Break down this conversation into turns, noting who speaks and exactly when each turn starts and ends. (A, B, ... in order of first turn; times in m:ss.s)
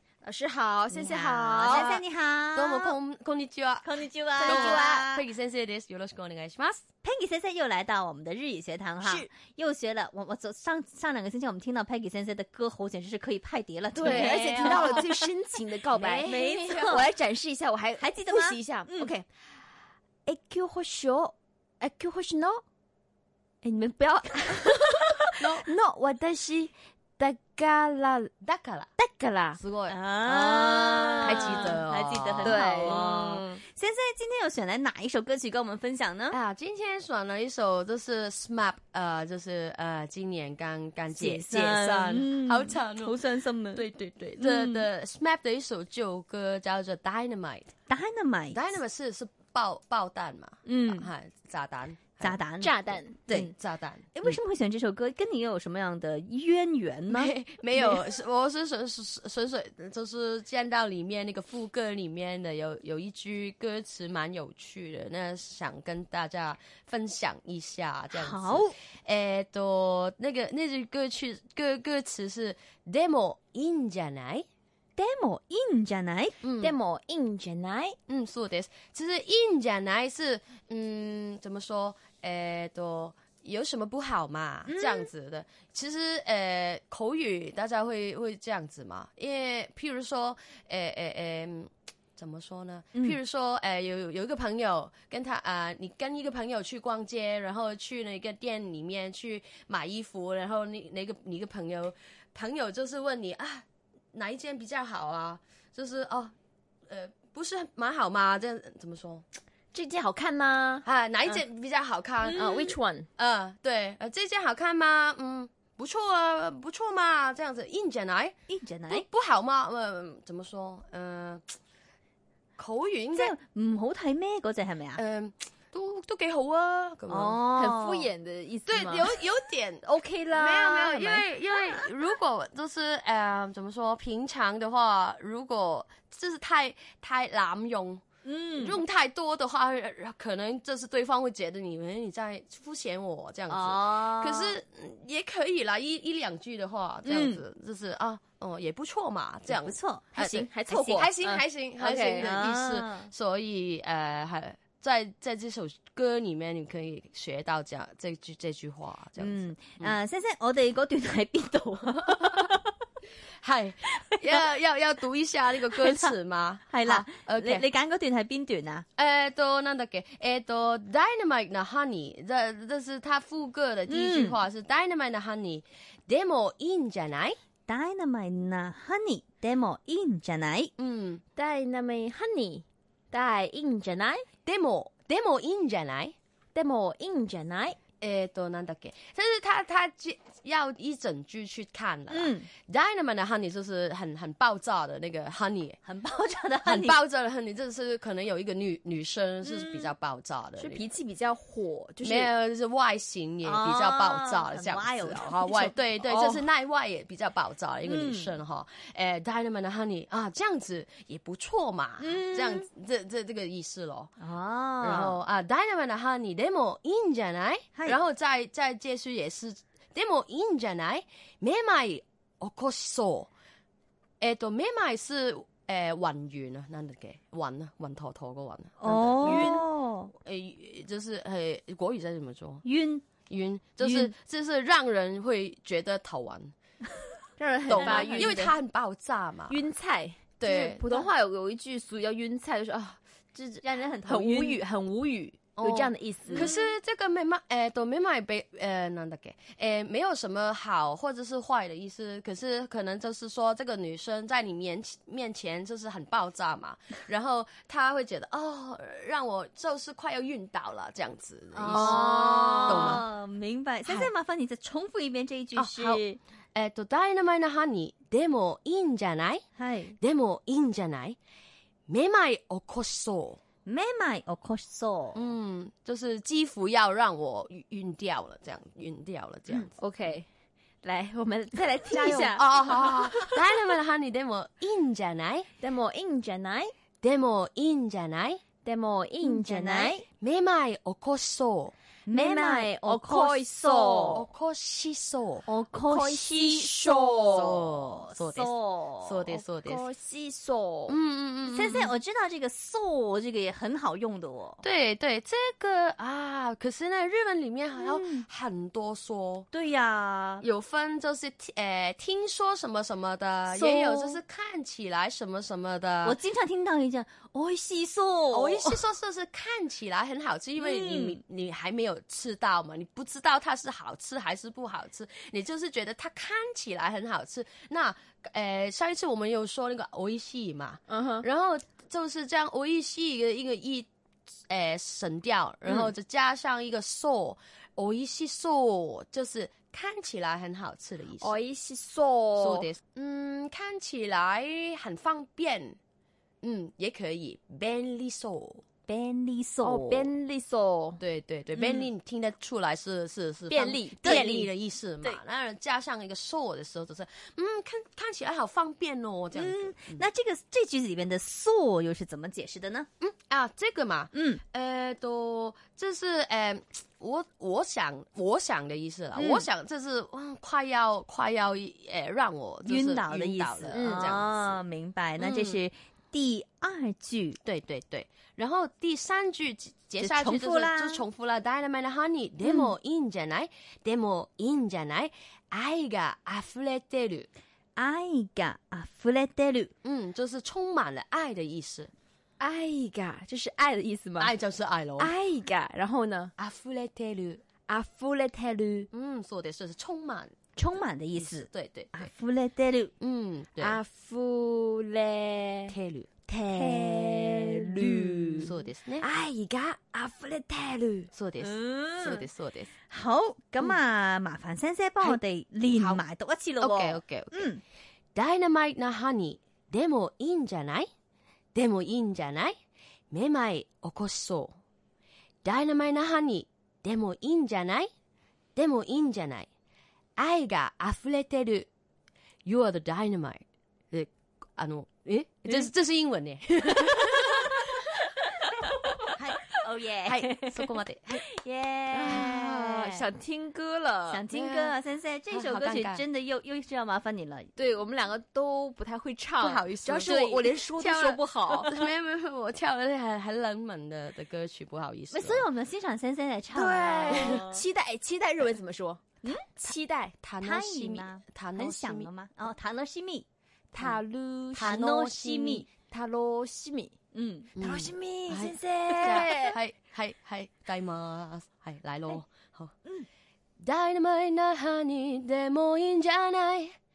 0:00.2-0:01.9 A
0:00.9-0:03.0 B
0:01.6-0:06.8 C
0:03.8-0:05.2 B
0:04.4-0:05.0 A
0:07.0-0:15.1 B
0:09.0-0:09.3 A
0:13.9-0:19.2 A
0:14.0-0:15.0 C
0:15.9-0:17.1 B
0:16.2-0:16.9 C
0:18.0-0:19.1 B
0:20.2-0:22.6 A
0:23.6-0:28.3 A
0:25.4-0:25.6 C
0:28.4-0:28.9 C
0:29.0-0:29.6 A
0:29.6-0:33.6 C
0:29.9-0:36.4 B
0:31.1-0:31.7 A
0:32.4-0:33.0 A
0:36.3-0:47.7 C
0:41.1-0:43.8 B
0:44.4-0:44.8 B
0:47.9-0:48.7 B
0:48.5-0:52.4 C
0:50.6-0:51.1 B
0:52.2-0:53.5 B
0:52.6-0:53.5 A
0:53.3-0:54.4 C
0:54.1-0:57.9 B
0:57.1-1:14.4 C
1:08.1-1:08.7 B
1:15.0-1:16.4 B
1:16.4-1:16.7 C
1:16.6-1:18.0 A
1:18.1-1:46.3 C
1:24.7-1:25.1 B
1:46.9-1:49.2 C
1:49.7-1:51.4 A
1:50.8-1:58.4 C
1:52.3-1:53.1 A
1:58.5-1:59.0 B
1:58.9-2:01.4 C
2:02.6-2:03.3 C
2:03.1-2:05.0 B
2:05.0-2:07.4 C
2:07.1-2:08.1 B
2:07.5-2:09.1 A
2:08.7-2:18.0 C
2:09.8-2:11.3 A
2:18.2-2:18.8 B
2:18.5-2:39.9 C
2:23.5-2:24.5 B
2:27.0-2:27.4 B
2:29.5-2:30.0 B
2:30.1-2:32.3 A
2:32.2-2:33.1 B
2:39.2-2:42.7 B
2:42.1-2:42.5 C
2:43.4-2:47.7 C
2:45.8-2:46.1 B
2:46.7-2:48.8 B
2:49.0-2:57.4 C
2:53.9-2:54.4 B
2:57.7-3:00.7 B
3:00.8-3:01.2 C
3:01.4-3:04.2 A
3:04.4-3:06.1 C
3:06.5-3:07.8 A
3:08.0-3:15.8 C
3:12.1-3:12.5 B
3:15.8-3:17.0 B
3:16.6-3:20.8 C
3:19.4-3:19.9 B
3:20.6-3:22.3 A
3:22.0-3:34.1 C
3:23.4-3:25.7 B
3:26.0-3:26.4 A
3:27.8-3:28.3 B
3:32.0-3:32.7 B
3:34.2-3:35.2 B
3:34.8-3:43.3 C
3:44.2-3:52.6 C
3:48.8-3:50.1 B
3:49.2-3:49.5 A
3:52.6-3:53.0 B
3:53.3-3:56.5 C
3:53.8-3:54.1 B
3:57.4-3:58.5 A
3:57.7-3:59.6 C
3:57.7-3:58.4 B
3:59.5-4:06.5 A
4:00.4-4:01.1 C
4:03.6-4:04.6 B
4:05.6-4:23.0 C
4:21.5-4:26.2 B
4:21.7-4:23.0 A
4:23.8-4:24.1 C
4:25.5-4:29.4 C
4:29.6-4:29.9 B
4:30.0-4:31.2 C
4:31.9-4:33.4 C
4:33.6-4:35.2 B
4:35.1-4:39.7 C
4:39.8-4:40.2 A
4:40.8-4:43.4 A
4:41.9-4:45.5 C
4:45.6-4:46.7 A
4:47.0-4:48.4 C
4:48.6-4:50.0 A
4:49.2-4:50.0 B
4:50.2-4:51.7 C
4:52.0-4:54.2 B
4:52.1-4:54.2 A
4:54.1-4:55.4 C
4:55.4-4:56.7 B
4:55.9-4:57.7 A
4:57.3-4:59.8 C
4:57.9-4:59.2 B
4:59.5-5:01.0 A
5:00.9-5:01.9 C
5:01.4-5:04.6 B
5:04.6-5:09.5 C
5:07.8-5:08.2 B
5:09.5-5:10.4 B
5:10.4-5:16.2 C
5:13.5-5:14.2 B
5:16.0-5:18.8 B
5:18.3-5:33.9 C
5:20.6-5:21.2 B
5:30.9-5:31.2 A
5:34.5-5:41.4 C
5:41.2-5:42.7 A
5:42.4-5:45.8 C
5:46.4-5:48.6 C
5:48.9-5:50.1 B
5:49.6-5:51.0 A
5:51.0-6:00.0 C
5:51.6-5:51.8 B
5:53.5-5:54.5 A
5:59.3-6:02.9 B
6:03.0-6:14.6 C
6:04.1-6:04.4 B
6:09.2-6:09.4 B
6:12.6-6:17.4 B
6:13.7-6:14.2 A
6:15.2-6:15.6 C
6:17.4-6:27.3 C
6:20.0-6:21.0 B
6:22.4-6:22.7 B
6:27.8-6:29.7 B
6:29.8-6:31.9 C
6:32.4-6:34.3 A
6:34.2-6:35.1 C
6:35.0-6:36.3 A
6:36.4-6:37.4 C
6:37.7-6:38.9 A
6:38.9-6:40.3 C
6:40.6-6:42.9 B
6:41.2-6:42.1 C
6:43.0-6:43.8 C
6:43.6-6:45.7 A
6:45.7-6:46.1 C
6:46.3-6:51.1 A
6:46.5-6:48.4 B
6:48.4-6:49.0 C
6:51.1-6:52.7 C
6:51.4-6:52.3 B
6:52.9-6:57.6 B
6:55.0-6:56.0 C
6:56.6-6:57.5 C
6:58.1-7:00.9 C
7:01.5-7:02.5 C
7:03.1-7:04.5 C
7:05.4-7:07.9 C
7:08.6-7:09.5 C
7:10.2-7:11.7 C
7:12.4-7:17.9 C
7:19.2-7:23.0 B
7:20.0-7:21.2 C
7:21.9-7:24.2 A
7:24.1-7:27.5 B
7:24.3-7:24.8 C
7:25.3-7:26.0 C
7:27.6-7:31.7 A
7:29.4-7:35.5 C
7:30.0-7:30.4 B
7:35.1-7:37.6 B
7:36.5-7:39.0 A
7:37.1-7:37.5 C
7:39.5-7:40.2 A
7:40.2-7:42.1 C
7:40.4-7:43.2 B
7:43.7-7:47.0 A
7:44.6-7:45.7 B
7:44.6-7:45.0 C
7:47.1-7:49.5 B
7:47.6-7:52.7 C
7:48.3-7:49.5 A
7:53.6-7:56.7 C